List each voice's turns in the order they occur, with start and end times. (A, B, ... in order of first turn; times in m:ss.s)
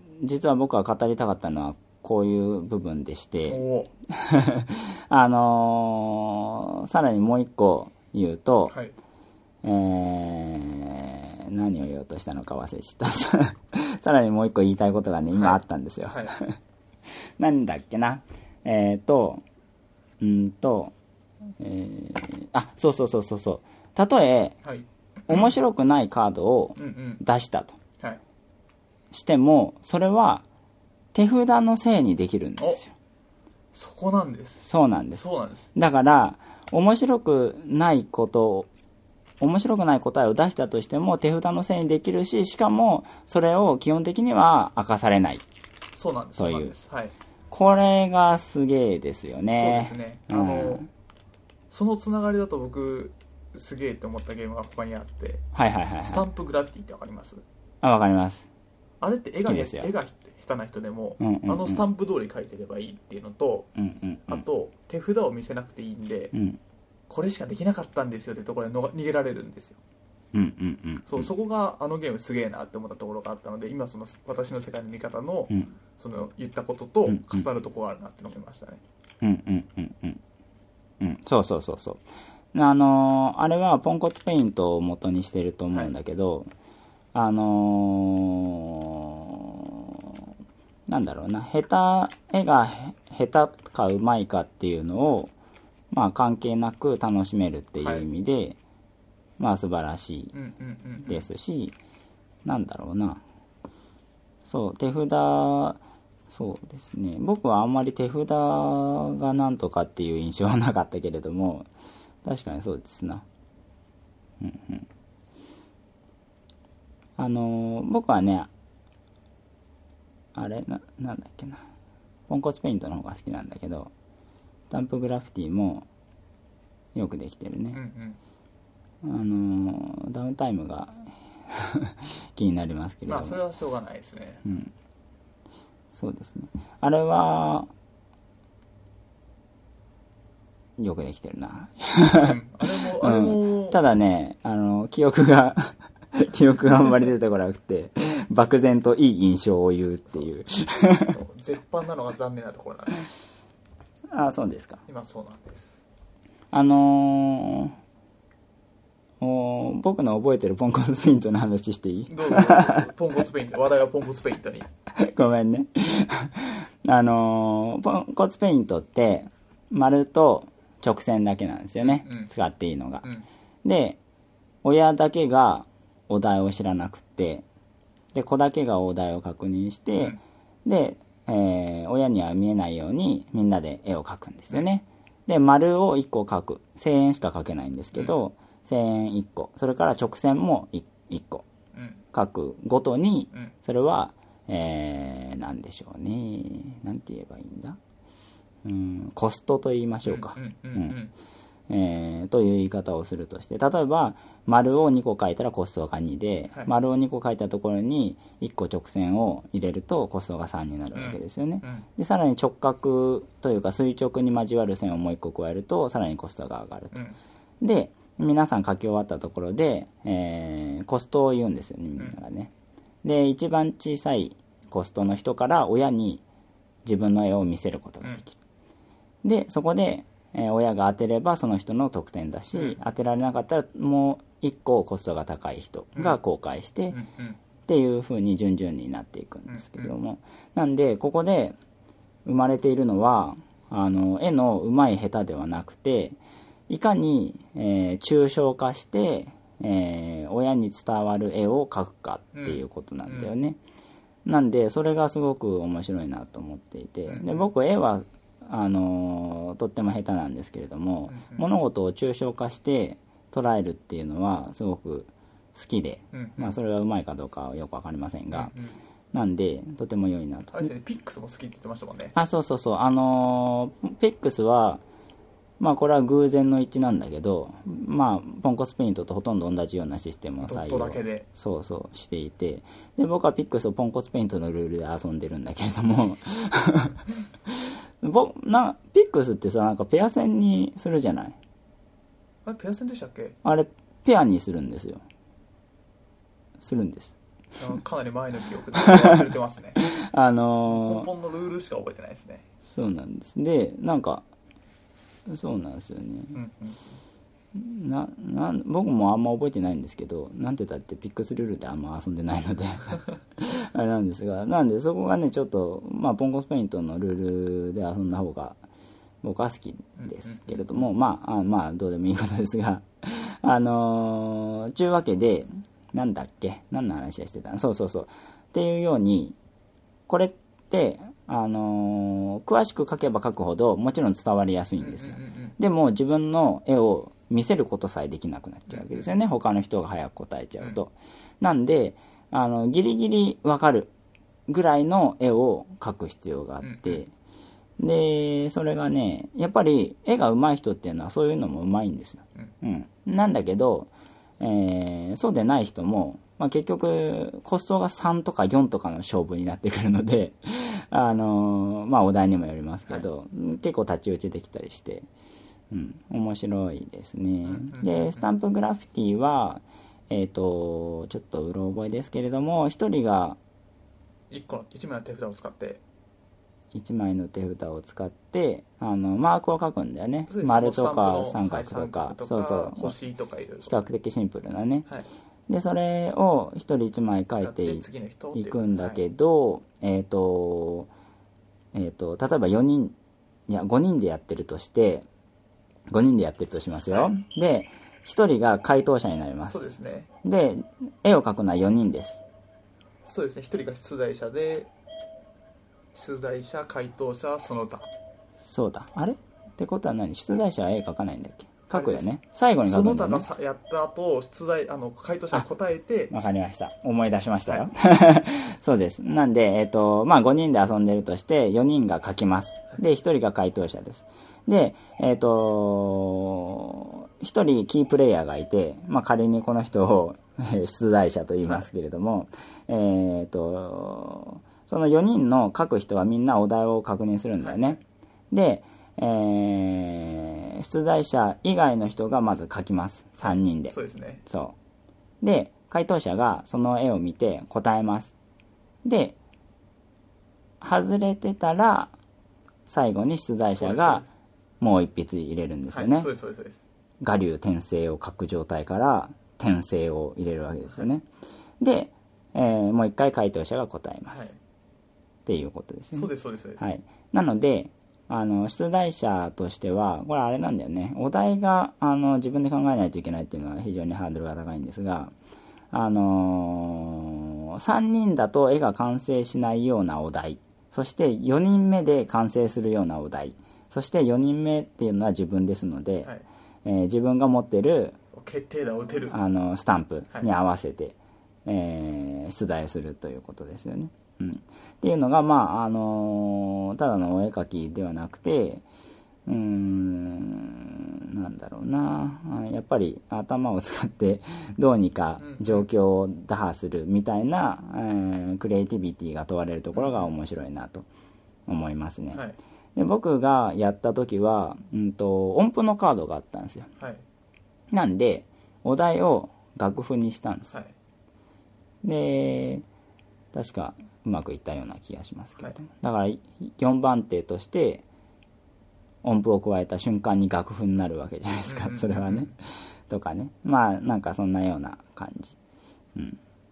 0:00.2-0:08.8 A
0:03.5-0:03.9 B
0:09.6-0:16.6 A
0:15.3-0:16.4 B
0:17.4-0:19.4 A
0:20.2-0:20.9 A
0:21.6-0:24.6 A
0:24.6-0:25.5 B
0:25.3-0:27.8 A
0:26.8-0:27.2 B
0:29.1-0:30.4 A
0:31.1-0:32.9 A
0:33.7-0:35.7 B
0:34.6-0:38.7 A
0:39.4-0:45.4 A
0:46.0-0:47.1 B
0:46.4-0:46.7 A
0:47.5-0:50.9 A
0:49.5-0:50.8 B
0:51.7-0:55.4 B
0:55.5-0:56.2 A
0:56.0-0:57.4 B
0:57.8-0:58.5 A
0:59.0-1:03.7 B
0:59.4-0:59.9 A
1:01.2-1:01.8 A
1:03.8-1:04.4 A
1:04.3-1:06.3 B
1:06.3-1:06.6 A
1:07.1-1:09.8 B
1:10.3-1:11.3 A
1:11.1-1:18.8 B
1:17.1-1:17.5 A
1:19.2-1:20.2 A
1:21.0-1:22.0 A
1:22.5-1:26.5 A
1:27.1-1:29.8 A
1:30.9-1:35.3 A
1:35.9-1:38.6 A
1:37.8-1:38.1 B
1:39.4-1:40.4 A
1:40.3-1:41.2 B
1:41.1-1:41.8 A
1:42.4-1:43.2 A
1:44.5-1:51.7 A
1:52.2-1:53.2 A
1:54.4-1:54.9 A
1:57.2-1:58.5 A
2:00.3-2:01.6 A
2:02.3-2:03.9 A
2:04.7-2:05.9 A
2:07.0-2:07.8 A
2:07.7-2:08.2 B
2:09.0-2:13.4 A
2:13.1-2:14.4 B
2:14.4-2:14.7 A
2:15.9-2:17.7 A
2:20.8-2:31.2 A
2:22.1-2:23.8 B
2:31.0-2:33.1 B
2:34.1-2:34.8 A
2:34.9-2:35.8 B
2:36.5-2:37.8 A
2:39.2-2:42.9 A
2:42.1-2:44.7 B
2:44.9-2:53.1 A
2:51.8-2:52.3 B
2:53.6-2:54.0 A
2:54.6-2:57.4 A
2:58.1-3:11.5 A
3:11.7-3:12.0 B
3:12.1-3:17.8 A
3:18.6-3:21.0 A
3:20.0-3:21.1 B
3:21.7-3:37.0 A
3:30.9-3:31.9 B
3:37.6-3:42.5 A
3:43.0-3:46.2 A
3:46.8-3:48.4 A
3:49.2-3:57.0 A
3:52.5-3:52.8 B
3:56.9-3:57.4 B
3:57.7-4:01.6 A
3:59.5-3:59.9 B
4:02.2-4:06.2 A
4:06.7-4:13.6 A
4:12.4-4:13.3 B
4:14.2-4:28.5 A
4:17.1-4:17.5 B
4:21.1-4:21.4 B
4:26.1-4:26.6 B
4:28.3-4:28.8 B
4:29.1-4:30.7 A
4:30.5-4:32.1 B
4:32.2-4:34.8 A
4:35.6-4:51.4 A
4:40.4-4:41.3 B
4:52.4-4:53.4 B
4:53.4-4:55.0 A
4:56.6-4:57.2 A
4:57.6-4:59.8 B
4:58.8-4:59.2 A
4:59.8-5:01.1 A
5:00.7-5:02.5 B
5:02.6-5:04.2 A
5:05.3-5:06.4 A
5:06.3-5:06.8 B
5:07.5-5:18.6 A
5:19.2-5:29.4 A
5:20.0-5:20.6 B
5:30.1-5:43.9 A
5:34.8-5:35.6 B
5:38.7-5:39.1 B
5:44.5-5:47.1 A
5:46.6-5:47.0 B
5:47.8-6:05.1 A
6:05.7-6:13.4 A
6:07.4-6:08.2 B
6:14.3-6:15.8 B
6:16.7-6:23.0 A
6:20.3-6:23.8 B
6:23.6-6:24.9 A
6:25.5-6:30.9 A
6:27.4-6:29.0 B
6:31.7-6:33.0 A
6:33.5-6:35.1 A
6:35.9-6:39.6 A
6:36.9-6:37.2 B
6:39.5-6:40.1 B
6:40.2-6:42.2 A
6:43.0-6:44.7 B
6:45.9-6:47.9 B
6:48.4-6:53.3 A
6:51.7-6:52.1 B
6:52.6-6:56.1 B
6:56.1-7:17.8 A
7:17.4-7:17.8 B
7:18.3-7:24.6 A
7:23.2-7:24.2 B
7:25.2-7:28.1 A
7:28.8-7:29.2 A
7:30.6-7:31.9 A
7:32.7-7:34.0 A
7:33.5-7:34.1 B
7:34.6-7:36.1 A
7:35.7-7:36.6 B
7:37.0-7:41.1 A
7:41.6-7:44.3 A
7:44.1-7:44.4 B
7:45.3-7:55.1 A
7:45.9-7:46.6 B
7:55.7-8:06.1 A
8:06.6-8:08.0 A
8:08.1-8:09.2 B
8:09.1-8:18.6 A
8:19.3-8:30.9 A
8:25.2-8:25.7 B
8:29.7-8:30.1 B
8:31.5-8:32.2 A
8:32.8-8:36.7 A
8:37.7-8:40.6 A
8:41.8-8:42.6 A
8:43.3-8:47.8 A
8:49.0-8:55.4 A
8:51.5-8:52.3 B